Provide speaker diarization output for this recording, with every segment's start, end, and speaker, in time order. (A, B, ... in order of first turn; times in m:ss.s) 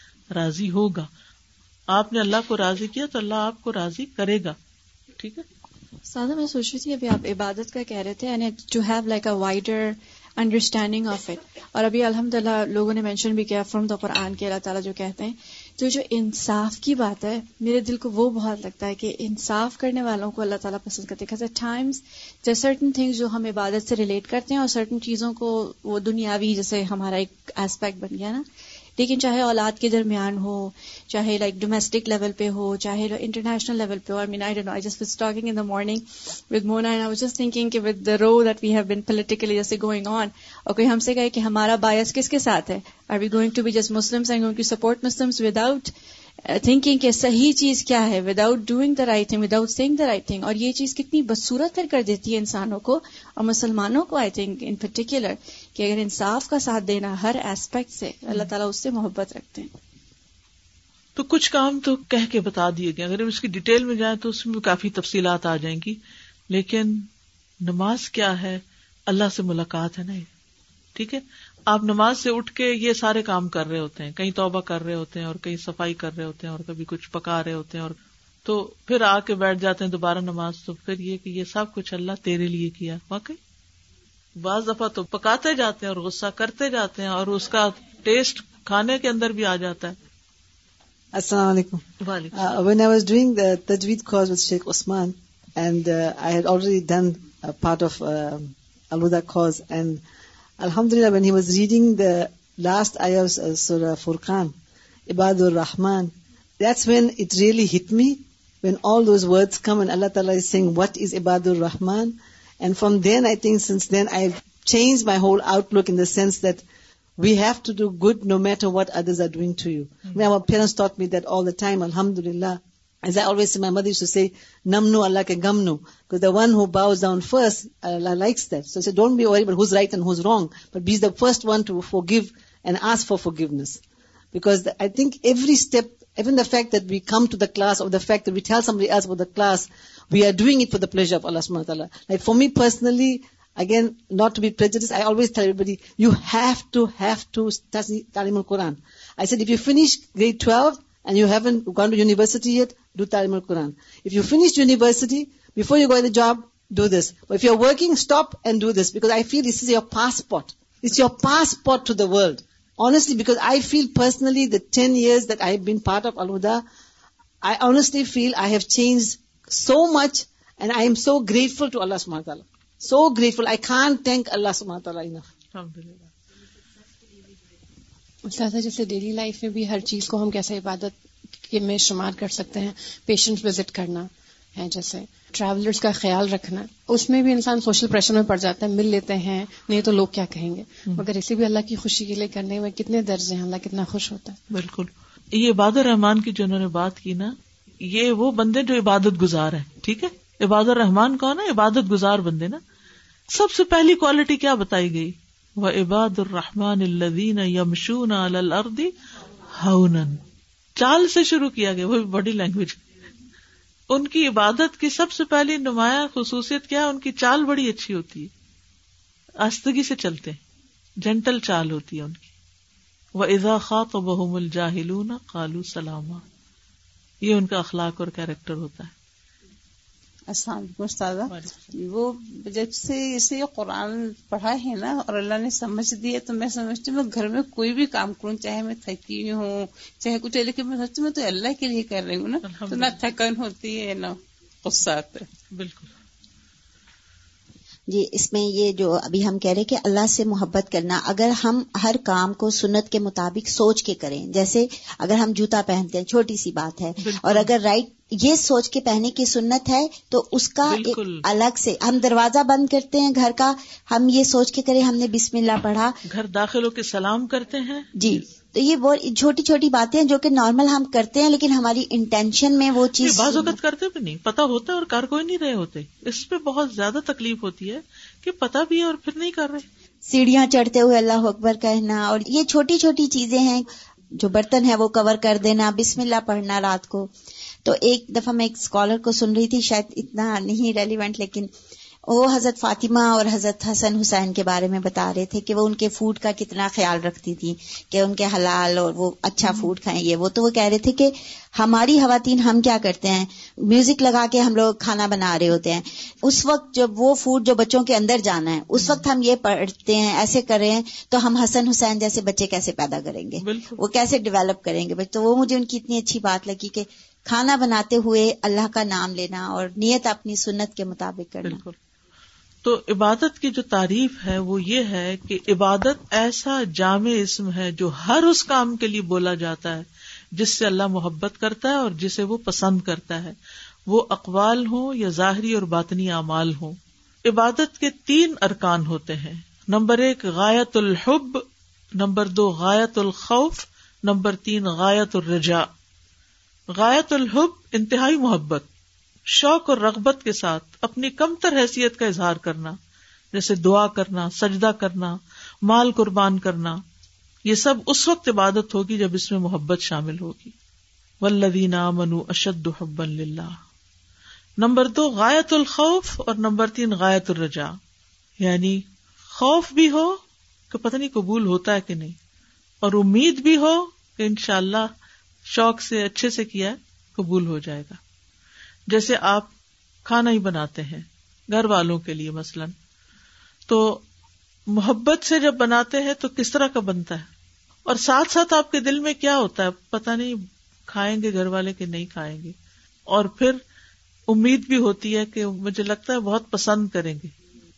0:00.3-0:01.1 A
0:01.9-0:04.6 A
0:05.2-0:05.4 A
0:06.1-0:28.4 B
0:29.0-0:45.9 B
0:46.4-0:59.7 B
1:01.2-1:06.0 A
1:06.5-1:07.0 A
1:07.6-1:10.3 A
1:11.0-1:23.4 A
1:24.4-1:30.0 A
1:31.1-1:40.0 C
1:32.0-1:32.3 A
1:40.6-1:44.5 C
1:45.1-1:56.6 C
1:57.2-2:13.8 C
2:14.3-2:46.6 C
2:47.4-2:55.2 C
2:55.5-2:56.1 A
2:58.2-3:00.9 D
3:01.5-3:14.4 D
3:14.5-3:22.6 A
3:23.3-3:28.9 A
3:29.6-3:30.2 A
3:30.8-3:32.8 A
3:33.9-3:38.3 A
3:39.4-3:40.4 A
3:41.0-3:42.3 A
3:43.2-3:46.2 A
3:47.2-3:48.9 A
3:50.3-4:05.3 E
3:51.3-3:51.7 A
4:02.4-4:03.1 A
4:05.5-4:05.9 A
4:07.9-4:26.0 F
4:17.0-4:17.5 A
4:20.6-4:21.2 A
4:26.0-4:28.2 A
4:28.0-4:33.5 F
4:33.0-4:39.6 A
4:40.0-4:47.1 F
4:47.6-4:51.5 F
4:52.1-5:21.6 F
5:08.8-5:09.0 A
5:13.4-5:13.8 A
5:21.4-5:21.8 A
5:22.6-5:33.4 A
5:33.9-5:41.4 A
5:42.0-5:45.7 A
5:46.7-5:48.7 A
5:49.3-5:52.8 A
5:53.3-5:56.8 A
5:57.5-6:00.5 A
6:01.2-6:03.6 A
6:04.6-6:07.8 A
6:08.4-6:10.2 A
6:10.7-6:12.2 A
6:12.8-6:14.9 A
6:15.5-6:18.0 A
6:18.9-6:19.5 A
6:20.0-6:22.7 A
6:23.7-6:24.0 A
6:24.7-6:27.3 A
6:27.9-6:32.6 A
6:33.1-6:33.6 A
6:34.3-6:37.3 A